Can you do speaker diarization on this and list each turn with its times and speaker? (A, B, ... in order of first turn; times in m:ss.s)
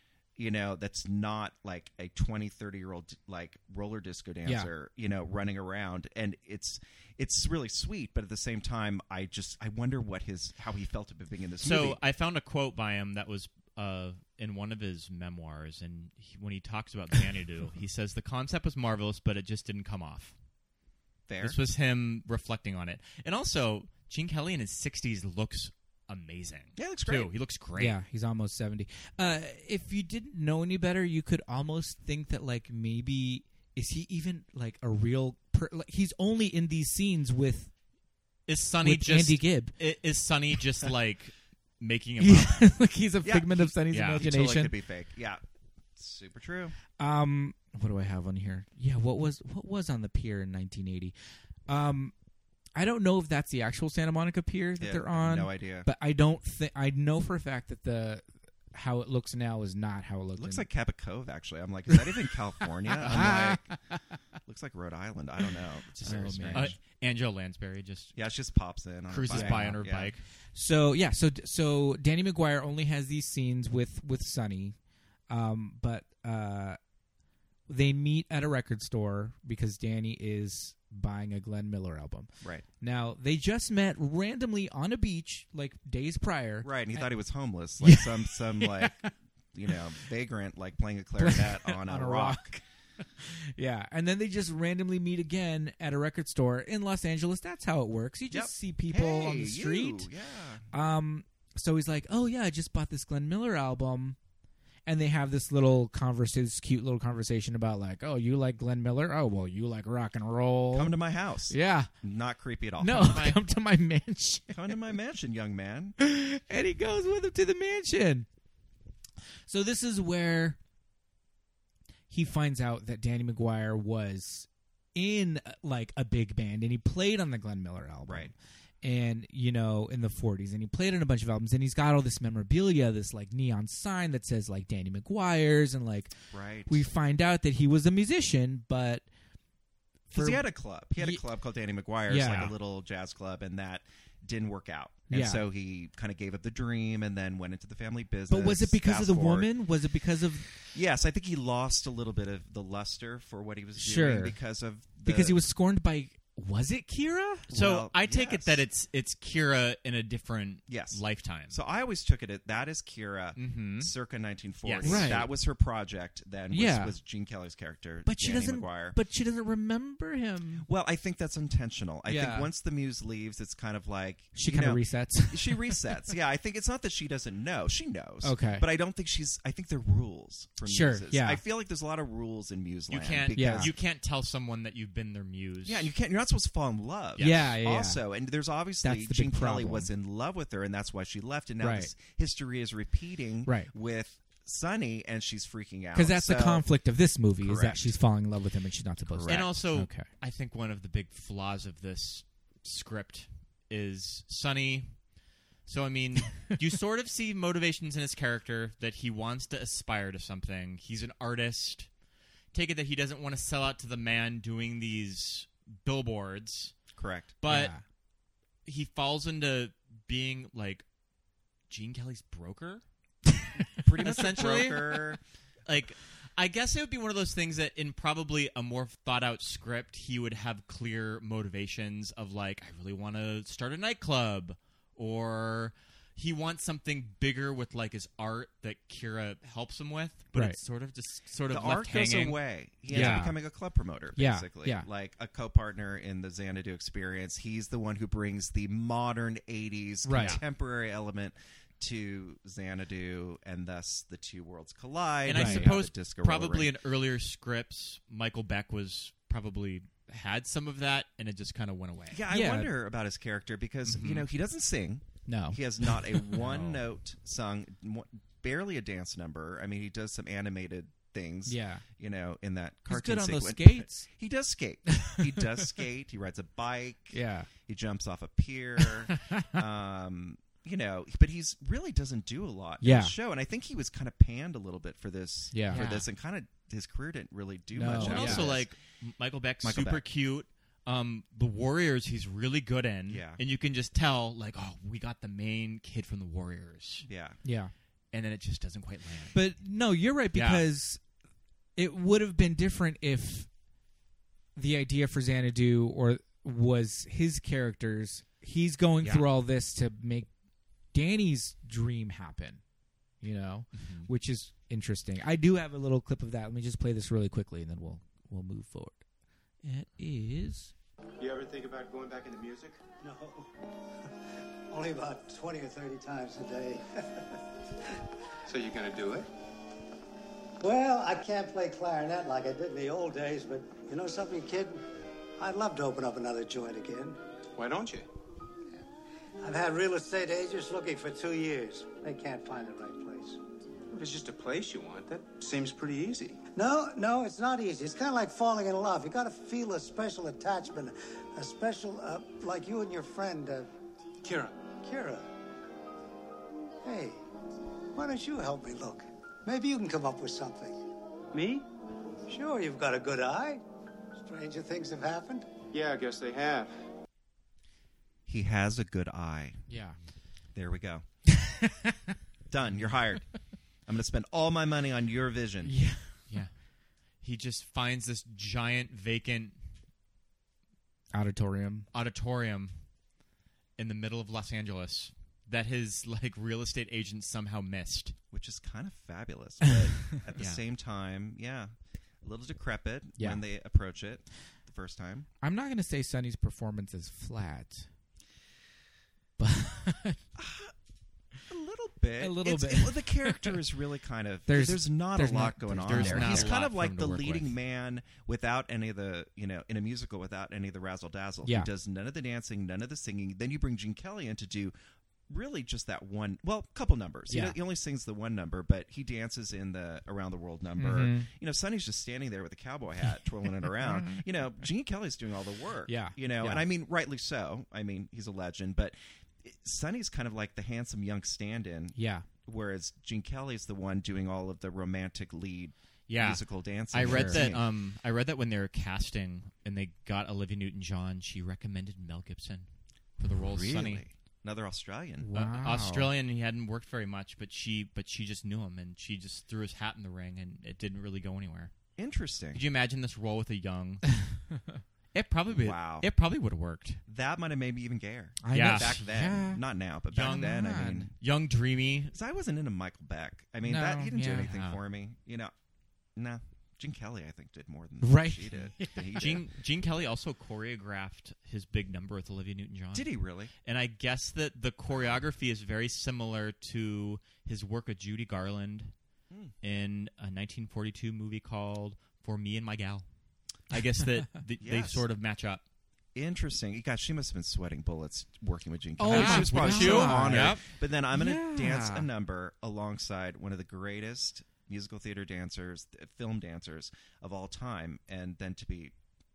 0:00.4-0:12.0 A
0:04.4-0:04.7 B
0:11.6-0:20.3 C
0:21.3-0:21.6 A
0:21.4-0:28.0 C
0:26.8-0:27.3 A
0:27.8-0:37.7 B
0:38.5-0:42.7 C
0:38.8-0:39.7 B
0:42.2-0:44.7 B
0:43.2-0:45.4 A
0:43.9-0:44.2 C
0:46.0-0:46.7 A
0:47.0-0:51.1 B
0:51.7-0:52.1 B
0:52.8-1:00.6 B
0:54.8-0:55.9 A
1:00.4-1:03.7 A
1:02.9-1:04.0 B
1:04.5-1:06.8 A
1:06.0-1:08.2 C
1:06.0-1:06.8 B
1:08.1-1:10.1 A
1:09.1-1:10.2 C
1:09.3-1:09.8 B
1:10.5-1:14.8 B
1:15.3-1:16.8 B
1:17.7-1:22.3 B
1:22.8-1:27.1 B
1:26.6-1:32.5 A
1:27.8-1:29.1 B
1:31.2-1:32.6 B
1:33.2-1:40.1 B
1:38.3-1:40.7 A
1:40.7-1:44.2 B
1:44.8-1:51.0 B
1:50.7-1:53.3 A
1:51.5-1:51.9 B
1:52.8-1:54.5 B
1:53.0-1:53.4 C
1:54.5-1:56.0 A
1:56.0-1:58.3 B
1:59.5-2:00.6 B
2:02.1-2:16.1 B
2:08.0-2:08.3 A
2:16.3-2:16.8 A
2:16.7-2:19.0 B
2:20.1-2:20.4 B
2:20.1-2:29.5 A
2:21.0-2:21.2 B
2:22.1-2:22.5 B
2:22.2-2:22.5 C
2:25.1-2:25.4 B
2:28.3-2:30.5 B
2:30.7-2:35.4 A
2:33.8-2:34.4 B
2:35.0-2:37.5 B
2:37.5-2:38.6 A
2:37.5-2:41.6 C
2:40.7-2:49.0 A
2:43.4-2:43.9 C
2:44.6-2:45.2 C
2:44.8-2:45.3 B
2:46.5-2:47.0 B
2:48.0-2:50.6 B
2:50.6-3:03.7 A
2:52.0-2:52.5 B
2:54.3-2:55.8 B
2:58.2-2:58.7 B
3:00.6-3:01.4 B
3:02.9-3:05.9 C
3:03.3-3:03.7 B
3:05.6-3:16.6 A
3:07.2-3:08.0 B
3:08.8-3:09.9 B
3:11.6-3:11.9 B
3:13.4-3:13.7 B
3:15.9-3:20.0 B
3:17.4-3:17.9 A
3:19.0-3:19.5 A
3:19.3-3:25.0 C
3:25.6-3:31.9 C
3:32.5-3:36.8 C
3:37.0-3:37.3 A
3:37.4-3:37.7 C
3:37.5-3:37.8 B
3:38.6-3:40.8 C
3:41.7-3:42.8 C
3:43.8-3:45.2 A
3:43.9-4:03.2 C
4:01.5-4:16.7 A
4:02.9-4:03.4 B
4:04.2-4:04.8 B
4:10.0-4:10.4 B
4:10.1-4:10.4 C
4:15.2-4:22.2 C
4:15.3-4:15.7 B
4:22.1-4:48.7 A
4:22.3-4:22.7 B
4:23.9-4:24.2 C
4:25.2-4:26.4 B
4:26.4-4:26.8 C
4:31.4-4:31.8 B
4:32.9-4:34.1 B
4:35.0-4:35.6 B
4:37.1-4:37.5 B
4:38.8-4:39.6 B
4:42.8-4:43.1 B
4:45.5-4:45.8 B
4:45.7-4:46.1 C
4:47.7-4:48.5 B
4:47.9-4:57.1 C
4:49.6-4:50.0 A
4:53.1-4:53.4 A
4:57.0-4:57.4 A
4:57.4-4:57.7 B
4:58.1-4:59.4 C
4:59.3-5:01.0 B
5:00.3-5:00.6 C
5:01.8-5:03.5 B
5:04.6-5:10.3 B
5:10.9-5:12.6 B
5:13.2-5:19.0 B
5:13.7-5:14.1 C
5:19.6-5:20.7 B
5:21.2-5:22.8 D
5:23.0-5:23.5 E
5:24.7-5:27.2 E
5:28.5-5:29.3 D
5:30.6-5:34.8 E
5:35.4-5:37.2 E
5:37.6-5:38.1 D
5:39.4-5:43.4 E
5:43.9-5:46.4 D
5:46.5-5:53.7 E
5:54.2-5:54.5 D
5:54.7-5:55.2 E
5:56.8-5:57.2 E
5:57.9-6:00.8 E
6:01.4-6:01.6 D
6:02.3-6:03.6 E
6:04.2-6:05.5 E
6:05.7-6:06.7 D
6:08.3-6:09.6 A
6:09.7-6:10.0 B
6:10.5-6:11.0 A
6:11.4-6:12.1 B
6:12.5-6:13.3 A
6:13.8-6:15.7 A
6:15.6-6:16.1 B
6:17.2-6:19.6 C
6:21.1-6:21.9 B
6:21.9-6:22.7 C
6:23.8-6:28.1 C
6:28.3-6:35.3 A
6:30.4-6:30.6 C
6:33.2-6:33.4 B
6:35.4-6:37.9 B
6:39.4-6:40.2 B
6:40.4-6:40.7 A
6:41.5-6:54.7 A
6:42.2-6:43.6 B
6:44.5-6:46.5 B
6:45.9-6:47.5 C
6:51.4-6:51.7 B
6:55.3-7:17.6 A
6:57.3-6:57.6 B
7:00.8-7:01.3 B
7:03.8-7:04.2 B
7:05.9-7:06.6 B
7:11.9-7:12.2 B
7:16.1-7:22.7 C
7:17.0-7:17.5 B
7:23.2-7:24.0 C
7:23.2-7:25.3 A
7:25.2-7:26.1 B
7:25.3-7:31.7 C
7:32.0-7:32.6 A
7:32.5-7:34.1 C
7:35.1-7:37.0 C
7:35.5-7:36.1 A
7:37.1-7:41.1 A
7:38.4-7:39.6 B
7:38.5-7:39.0 C
7:40.1-7:42.1 C
7:40.2-7:41.1 B
7:42.1-7:45.5 A
7:43.6-7:44.5 B
7:44.4-7:44.8 C
7:46.2-7:49.4 A
7:48.0-7:49.0 B
7:49.2-7:53.1 C
7:52.9-7:53.5 A
7:53.6-7:58.9 C
7:54.9-7:55.2 A
7:59.6-8:03.0 C
8:03.7-8:05.6 C
8:04.6-8:05.0 A
8:06.1-8:18.9 A
8:09.0-8:10.6 B
8:09.1-8:10.6 C
8:11.1-8:12.1 B